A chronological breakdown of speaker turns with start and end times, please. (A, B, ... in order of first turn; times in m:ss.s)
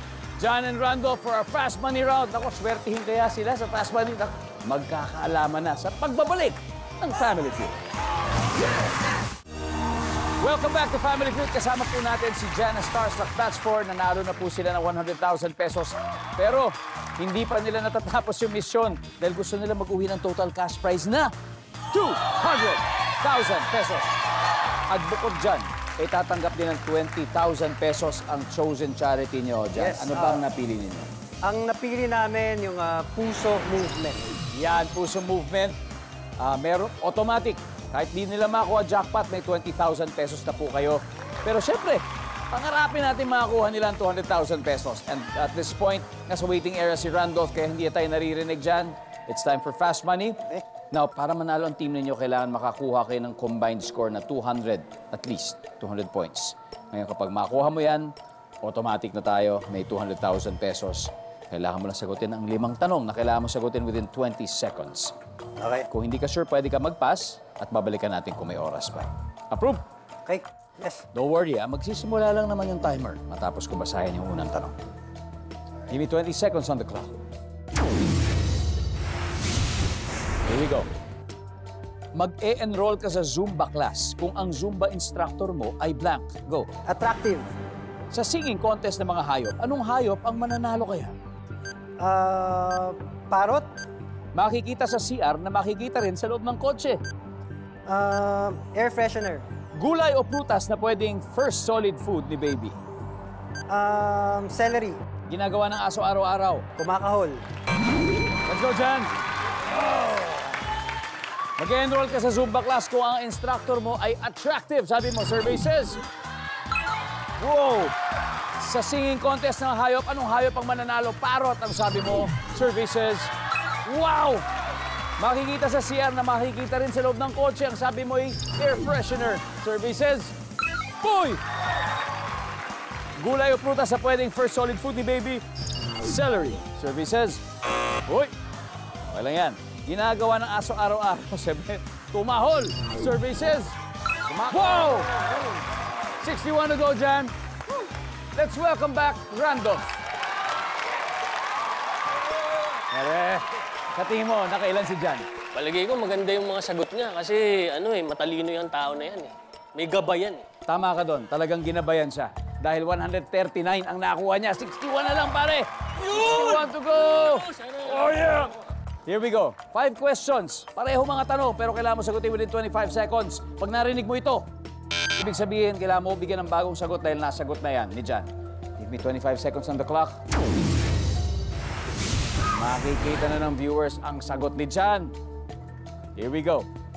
0:00.4-0:07.8 A
0:10.4-0:21.3 A
0:21.9-0:24.1 A
0:24.9-0:31.1 A
0:29.8-0:30.4 B
0:31.4-0:34.2 B
0:34.5-0:35.7 A
0:36.4-0:50.4 A
0:50.9-0:58.1 A
0:58.6-1:05.1 A
1:05.6-1:05.8 B
1:05.9-1:09.8 A
1:10.2-1:11.0 B
1:11.1-1:14.7 A
1:15.9-1:17.1 A
1:20.5-1:20.9 A
1:22.1-1:26.7 A
1:26.9-1:27.5 B
1:28.1-1:31.1 A
1:32.0-1:33.6 B
1:34.3-1:37.0 A
1:37.9-1:39.4 B
1:39.8-1:42.8 A
1:43.7-1:45.0 B
1:45.3-1:46.6 A
1:46.8-1:47.4 B
1:48.5-1:49.1 A
1:51.6-1:56.0 A
1:57.4-1:57.9 A
1:58.6-2:03.3 A
2:03.8-2:04.4 A
2:05.2-2:10.3 A
2:11.0-2:11.4 A
2:13.2-2:15.4 A
2:16.0-2:17.4 A
2:18.1-2:18.3 A
2:19.1-2:23.7 A
2:24.3-2:25.2 A
2:26.2-2:27.3 A
2:28.3-2:29.9 A
2:32.9-2:35.2 A
2:35.5-2:40.4 C
2:40.7-2:48.5 A
2:46.0-2:46.6 C
2:47.2-2:48.1 C
2:49.0-2:54.5 A
2:55.2-2:58.3 A
2:58.8-3:00.2 A
3:02.5-3:05.1 A
3:06.2-3:06.7 A